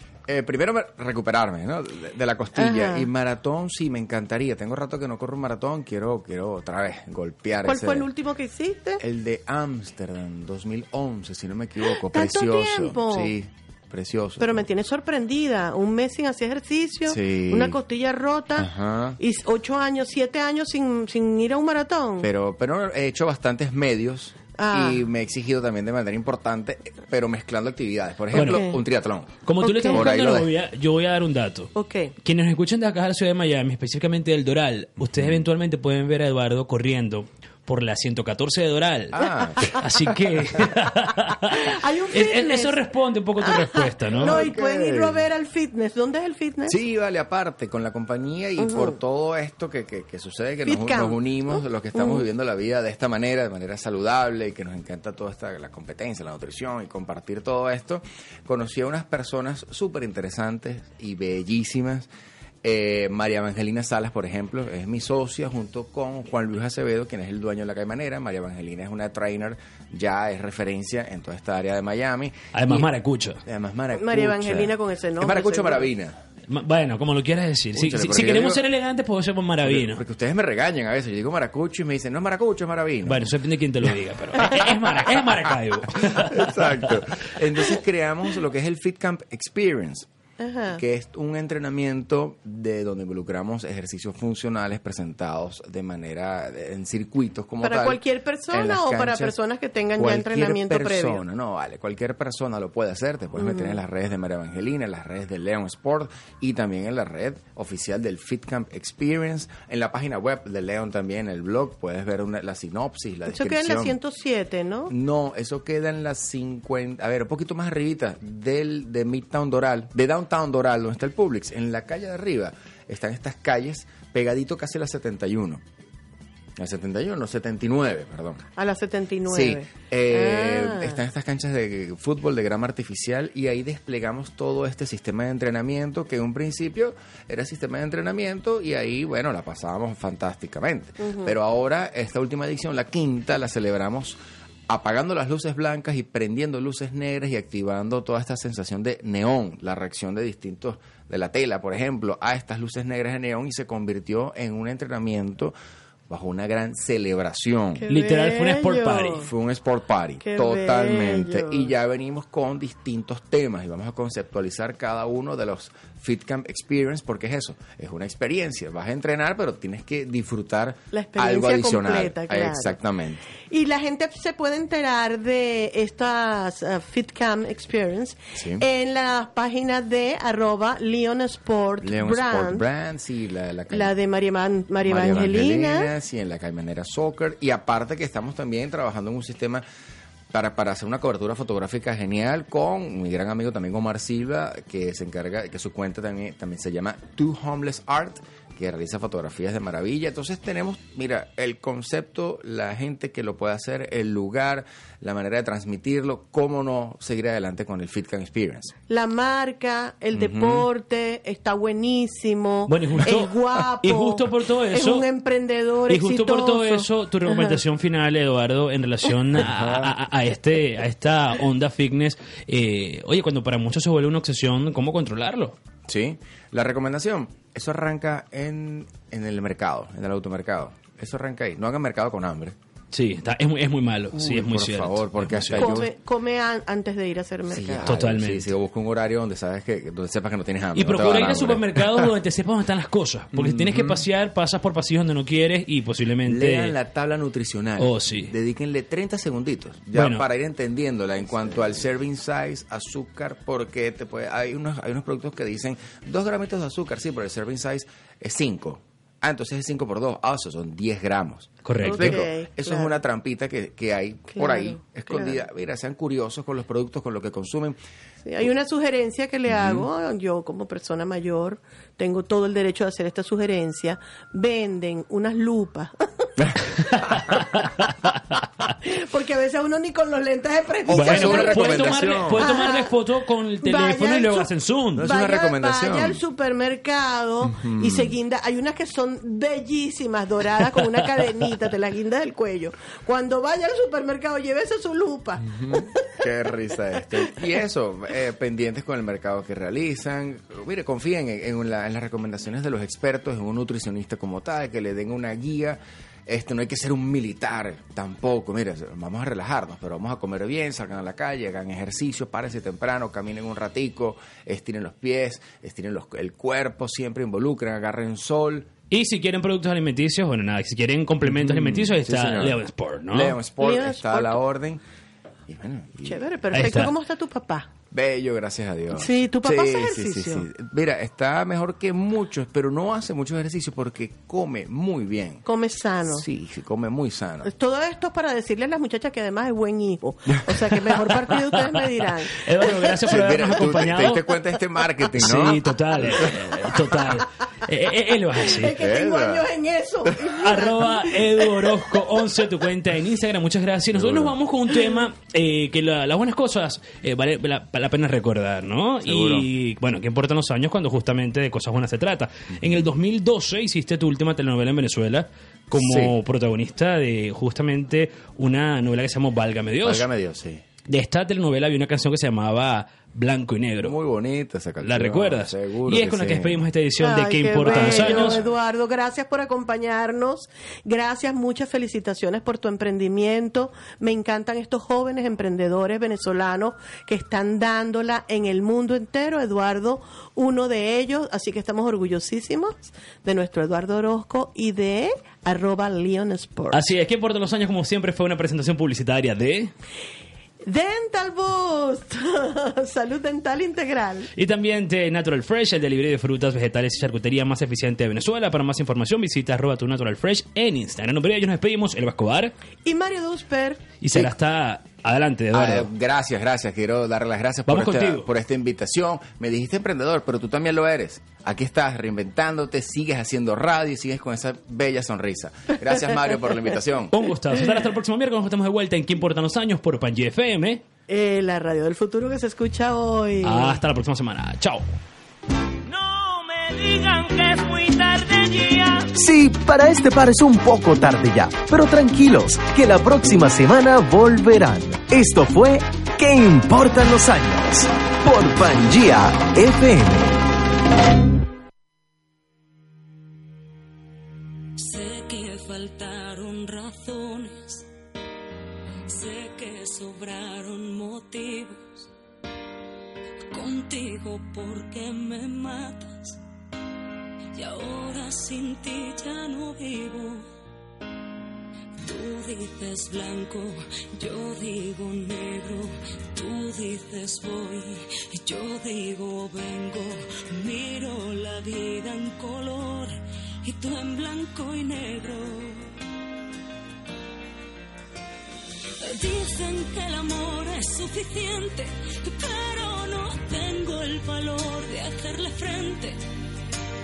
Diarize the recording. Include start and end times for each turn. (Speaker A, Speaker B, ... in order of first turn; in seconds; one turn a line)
Speaker A: 0.3-8.1
Speaker B: 2.6-3.1
Speaker B: 7.6-9.0
Speaker A: 9.0-14.7
Speaker B: 11.9-13.3
Speaker B: 14.4-22.3
Speaker A: 17.1-17.8
Speaker A: 18.6-19.2
Speaker A: 22.2-30.5
Speaker B: 24.6-25.0
Speaker C: 28.3-28.6
Speaker B: 28.4-28.8
Speaker C: 29.4-44.5
Speaker B: 29.6-30.1
Speaker B: 31.7-32.1
Speaker A: 39.1-39.8
Speaker B: 41.5-42.8
Speaker B: 43.5-46.8
Speaker A: 44.1-45.2
Speaker A: 46.7-62.1
Speaker B: 48.6-49.0
Speaker B: 50.7-52.2
Speaker A: 62.6-72.9
Speaker C: 72.5-73.4
Speaker A: 73.5-76.2
Speaker B: 74.0-75.9
Speaker C: 76.5-80.0
Speaker A: 77.7-78.6
Speaker A: 79.6-83.3
Speaker C: 83.0-86.9
Speaker A: 84.4-85.0
Speaker A: 85.9-90.1
Speaker B: 90.4-90.8
Speaker A: 90.7-99.4
Speaker B: 97.6-101.2
Speaker A: 100.0-114.0
Speaker B: 103.4-103.8
Speaker B: 113.3-114.9
Speaker A: 114.9-125.6
Speaker A: 126.6-128.5
Speaker B: 128.6-131.0
Speaker A: 129.3-144.2
Speaker B: 141.0-141.3
Speaker A: 144.7-155.6
Speaker A: 156.1-157.8
Speaker B: 157.8-159.3
Speaker C: 157.9-159.2
Speaker A: 159.2-173.3
Speaker B: 160.2-161.7
Speaker B: 170.9-172.8
Speaker B: 173.5-182.6
Speaker A: 178.3-178.6
Speaker A: 181.8-183.9
Speaker B: 183.7-185.9
Speaker A: 184.8-189.6
Speaker A: 190.3-208.7
Speaker B: 208.9-217.6
Speaker A: 210.1-210.7
Speaker C: 212.7-215.1
Speaker C: 215.9-225.6
Speaker A: 219.4-219.9
Speaker A: 225.9-232.6
Speaker C: 232.9-235.8
Speaker A: 234.1-235.9
Speaker B: 235.6-237.9
Speaker A: 237.5-242.1
Speaker C: 237.9-238.5
Speaker C: 240.8-246.7
Speaker A: 243.3-244.0
Speaker A: 246.3-267.8
Speaker C: 247.8-248.3
Speaker C: 249.9-250.2
Speaker C: 261.6-262.2
Speaker B: 261.8-263.0
Speaker B: 264.3-265.4
Speaker B: 268.2-276.3
Speaker A: 269.5-269.9
Speaker A: 276.4-277.3
Speaker C: 277.1-277.8
Speaker B: 278.8-282.9
Speaker A: 280.9-282.5
Speaker C: 280.9-285.1
Speaker B: 283.6-284.5
Speaker A: 284.9-286.2
Speaker B: 285.1-295.8
Speaker A: 287.4-288.1
Speaker A: 295.4-318.7
Speaker C: 318.9-323.4
Speaker A: 321.2-324.8
Speaker B: 323.6-324.4
Speaker A: 325.5-326.7
Speaker B: 326.0-327.7
Speaker C: 326.5-326.9
Speaker A: 327.9-335.4
Speaker B: 328.9-330.5
Speaker B: 335.4-336.2
Speaker A: 336.1-337.5
Speaker B: 337.4-342.5
Speaker A: 340.3-341.0
Speaker C: 342.3-344.3
Speaker A: 343.1-347.1
Speaker C: 345.2-348.7
Speaker B: 348.5-351.5
Speaker A: 348.6-349.5
Speaker A: 350.1-350.3
Speaker C: 350.4-370.1
Speaker A: 353.9-354.4
Speaker A: 359.0-359.5
Speaker A: 365.7-366.1
Speaker A: 369.8-370.6
Speaker C: 370.9-373.9
Speaker A: 373.8-376.6
Speaker C: 374.8-378.4
Speaker B: 377.0-396.8
Speaker A: 377.6-378.5
Speaker C: 396.7-399.7
Speaker B: 400.6-404.3
Speaker C: 404.4-412.5
Speaker B: 412.9-413.8
Speaker C: 414.0-415.9
Speaker A: 415.5-427.1
Speaker C: 417.7-418.3
Speaker C: 427.1-430.8
Speaker B: 431.1-433.8
Speaker C: 433.4-434.9
Speaker D: 435.9-438.7
Speaker E: 439.1-450.4
Speaker D: 454.8-457.9
Speaker D: 459.1-462.1
Speaker D: 463.5-466.4
Speaker D: 467.5-470.5
Speaker D: 472.0-485.9
Speaker D: 489.0-496.2